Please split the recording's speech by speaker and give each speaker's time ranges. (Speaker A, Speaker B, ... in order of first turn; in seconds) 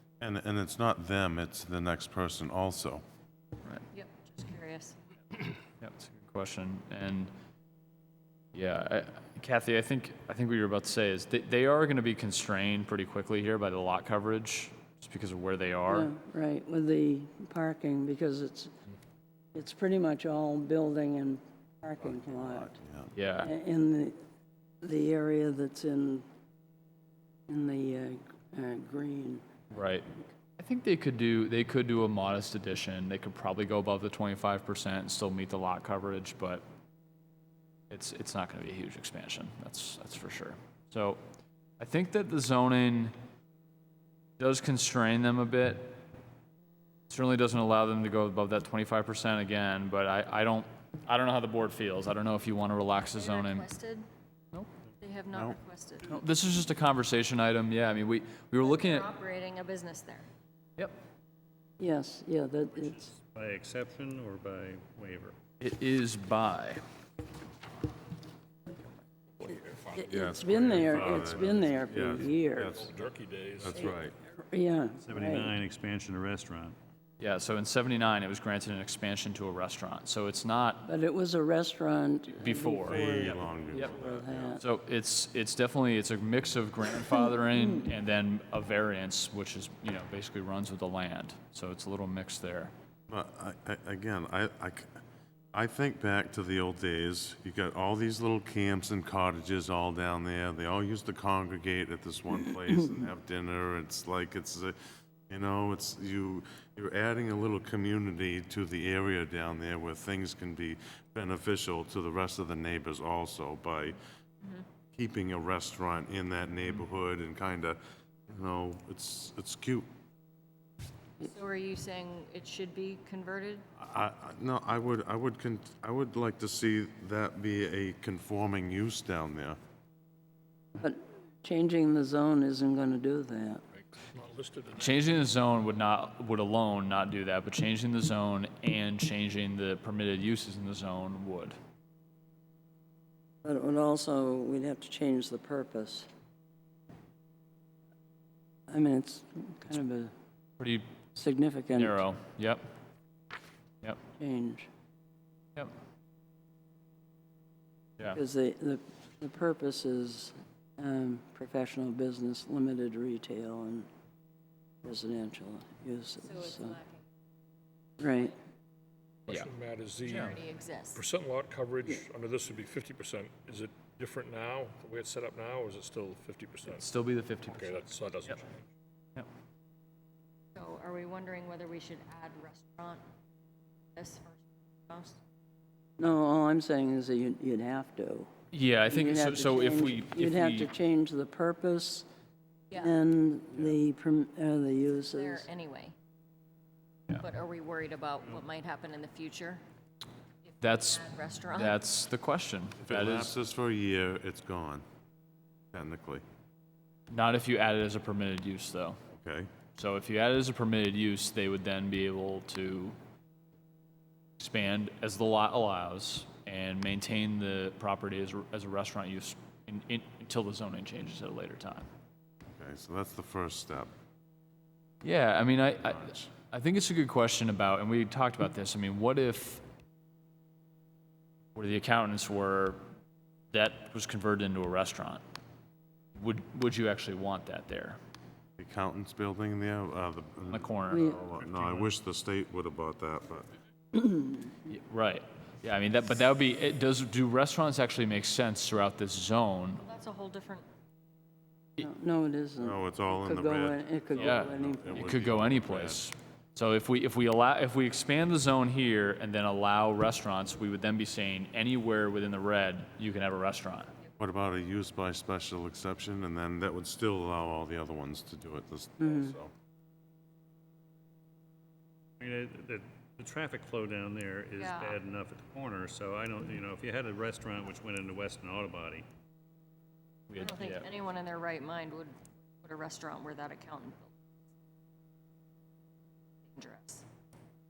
Speaker A: 0.2-3.0, 22.2-23.1, 55.3-55.6, 70.1-72.9, 73.6-74.1, 82.9-84.6, 93.1-94.9, 95.5-104.8, 105.3-114.0, 114.9-119.9, 123.8-129.6, 202.8-204.8, 205.7-206.2, 209.1-209.5, 222.6-223.9, 225.8-226.3, 238.6-243.5, 252.6-256.0, 264.2-269.5
Speaker B: 3.9-5.0, 53.1-54.1, 55.0-56.2, 58.6-60.3, 114.4-114.7, 121.2-123.7, 166.3-167.0, 170.1-171.0, 180.6-183.0, 183.9-185.2, 195.0-195.9, 197.2-199.6, 200.5-201.8, 249.8-250.7, 274.6-275.0, 280.4-284.1, 286.5-287.0
Speaker C: 5.8-7.3, 8.5-16.1, 23.1-23.5, 29.7-36.6, 37.9-41.2, 41.8-43.1, 44.4-46.0, 47.1-53.7, 56.1-59.1, 65.6-66.8, 77.2-80.9, 82.4-83.1, 84.6-92.7, 134.8-141.6, 150.6-150.8, 151.8-152.6, 170.1-170.3, 176.7-177.8, 188.5-190.7, 200.6-203.3, 207.1-209.0, 209.8-213.0, 214.4-221.9, 225.0-229.6, 231.6-232.8, 233.5-235.2, 236.2-238.0, 240.5-241.1, 244.7-249.8, 254.2-263.9, 280.3-280.9
Speaker D: 15.9-18.7, 19.5-22.7, 23.4-24.2, 24.8-26.2, 27.5-29.4, 61.8-63.0, 69.9-72.7, 74.4-75.5, 80.9-84.6, 130.8-133.6, 143.4-146.1, 148.7-150.1, 151.2-152.0, 154.2-154.7, 158.1-163.9, 164.8-166.8, 168.0-168.4, 186.0-188.3, 188.9-192.1, 192.8-195.5, 240.9-241.2, 244.0-244.3, 251.8-255.1, 269.0-269.3
Speaker E: 63.0-65.4, 75.0-76.8, 241.4-241.9, 272.2-279.1
Speaker F: 69.7-71.7, 72.7-74.0, 134.2-135.0, 169.3-170.4, 170.9-176.8, 177.5-178.6